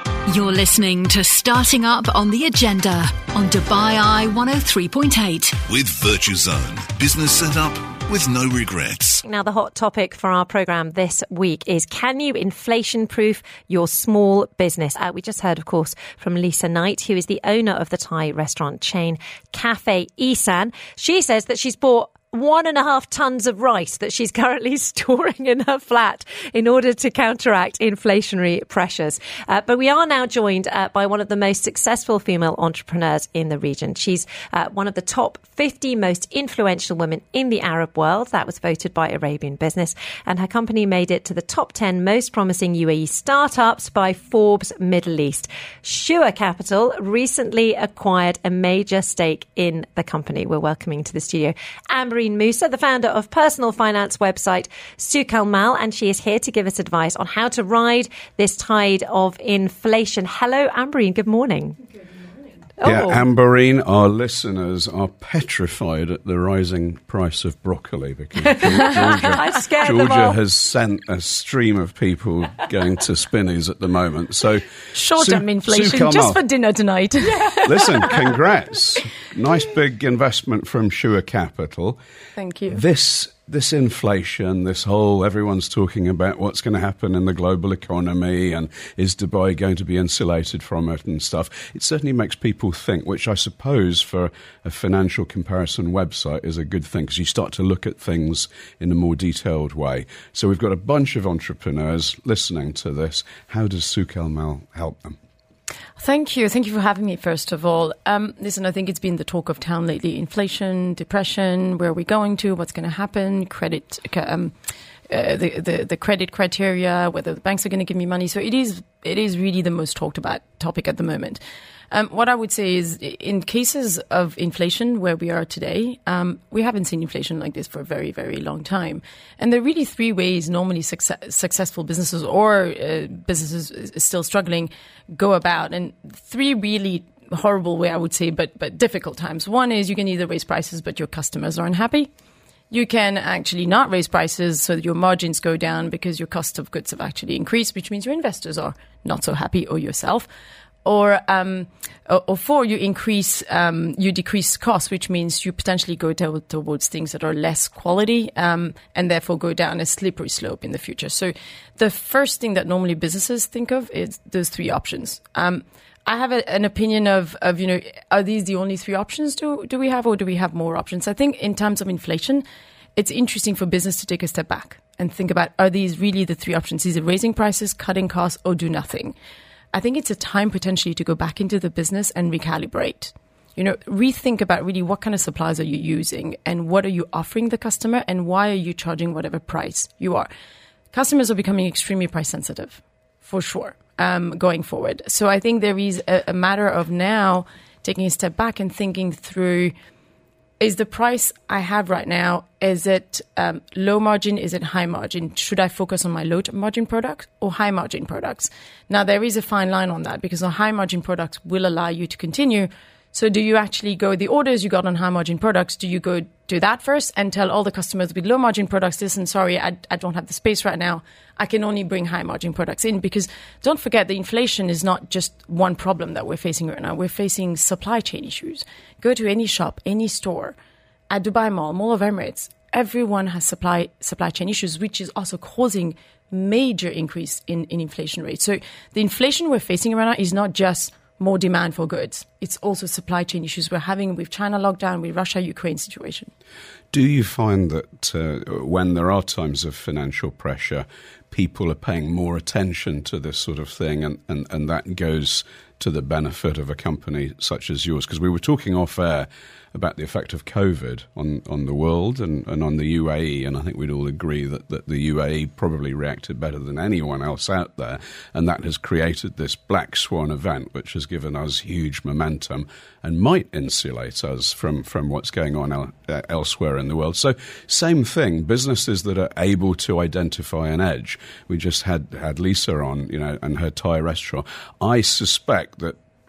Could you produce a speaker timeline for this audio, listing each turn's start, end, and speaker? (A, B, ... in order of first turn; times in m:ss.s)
0:00.2-0:05.6 A
0:05.7-0:09.2 B
0:09.2-1:01.8 C
1:02.8-1:03.2 C
1:02.8-1:16.4 D
1:08.4-1:10.4 C
1:14.9-1:18.4 E
1:17.6-1:22.0 D
1:22.4-1:22.8 E
1:22.7-1:45.2 D
1:46.0-1:54.5 E
1:55.1-2:22.1 E
2:22.7-2:30.3 E
2:30.8-2:52.4 E
2:53.0-2:59.1 E
2:59.7-3:10.3 E
3:10.9-3:19.7 E
3:20.6-3:50.6 E
3:51.1-4:06.3 E
4:06.9-4:46.0 D